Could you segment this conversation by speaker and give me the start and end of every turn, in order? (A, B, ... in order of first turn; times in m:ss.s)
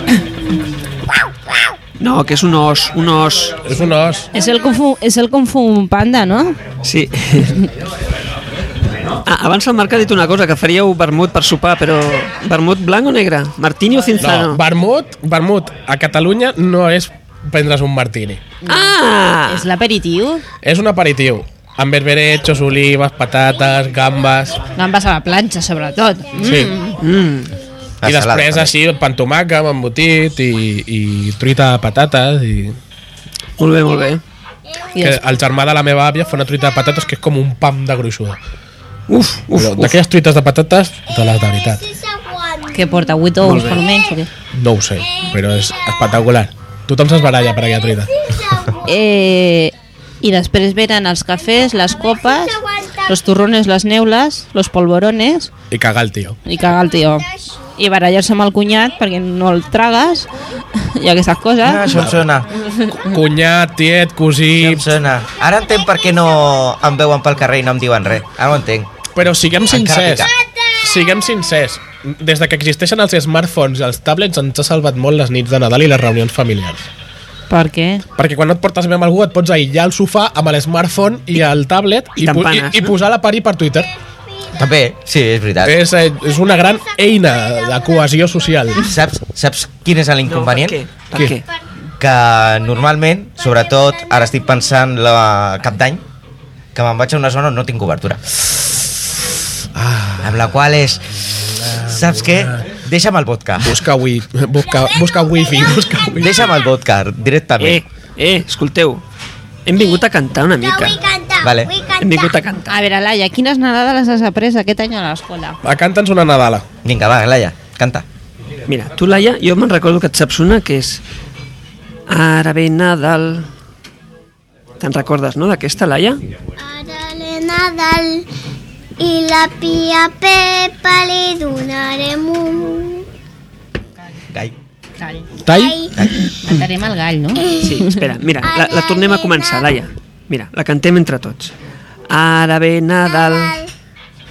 0:02.0-0:03.7 A
0:03.6-0:04.3 B
0:04.3-0:06.6 C
0:06.8-0:07.6 A
0:09.2-0:14.6 A
0:14.2-0:18.4 B
0:18.6-0:20.4 C
0:18.7-0:19.7 A
0:20.6-0:24.6 B
0:24.8-0:27.0 C
0:26.4-0:26.7 B
0:27.0-0:27.5 A
0:28.0-0:28.7 D
0:28.0-0:32.8 B
0:33.6-0:34.2 A
0:34.8-0:35.2 E
0:34.9-0:35.2 C
0:35.0-0:38.4 B
0:39.1-0:40.0 A
0:39.6-0:41.8 B
0:41.2-0:44.2 E
0:42.7-0:44.3 C
0:43.4-0:43.8 A
0:44.5-0:48.1 B
0:48.1-0:49.0 E
0:48.9-0:55.5 C
0:51.6-0:53.2 E
0:55.7-0:56.4 B
0:56.4-1:02.0 C
0:56.8-0:57.6 E
1:01.6-1:02.5 D
1:02.8-1:03.1 C
1:03.1-1:04.8 B
1:04.6-1:09.0 D
1:09.2-1:10.3 B
1:09.7-1:10.3 D
1:10.8-1:16.9 B
1:17.5-1:18.0 C
1:18.2-1:23.9 B
1:22.2-1:22.9 A
1:24.6-1:25.8 D
1:25.6-1:28.9 B
1:26.5-1:27.5 E
1:28.8-1:30.8 D
1:30.2-1:31.4 A
1:31.1-1:31.4 B
1:32.0-1:36.0 D
1:33.4-1:34.6 E
1:36.8-1:38.2 D
1:39.8-1:40.4 B
1:40.2-1:41.0 D
1:41.6-1:42.5 B
1:41.8-1:43.8 D
1:43.6-1:46.5 B
1:44.6-1:46.0 E
1:46.2-1:47.8 D
1:47.6-1:49.0 A
1:49.7-1:51.0 A
1:50.6-1:52.4 E
1:51.4-1:51.7 D
1:52.0-1:52.8 A
1:52.7-1:55.6 C
1:55.6-1:56.6 B
1:56.8-1:58.0 D
1:58.7-2:01.0 A
2:02.1-2:03.5 A
2:04.8-2:06.2 A
2:06.6-2:08.3 E
2:09.0-2:13.1 E
2:15.5-2:15.8 B
2:15.5-2:15.9 E
2:16.0-2:16.3 D
2:16.4-2:17.5 C
2:17.4-2:17.8 E
2:17.6-2:21.5 A
2:18.4-2:19.7 E
2:22.1-2:23.6 A
2:23.1-2:23.7 E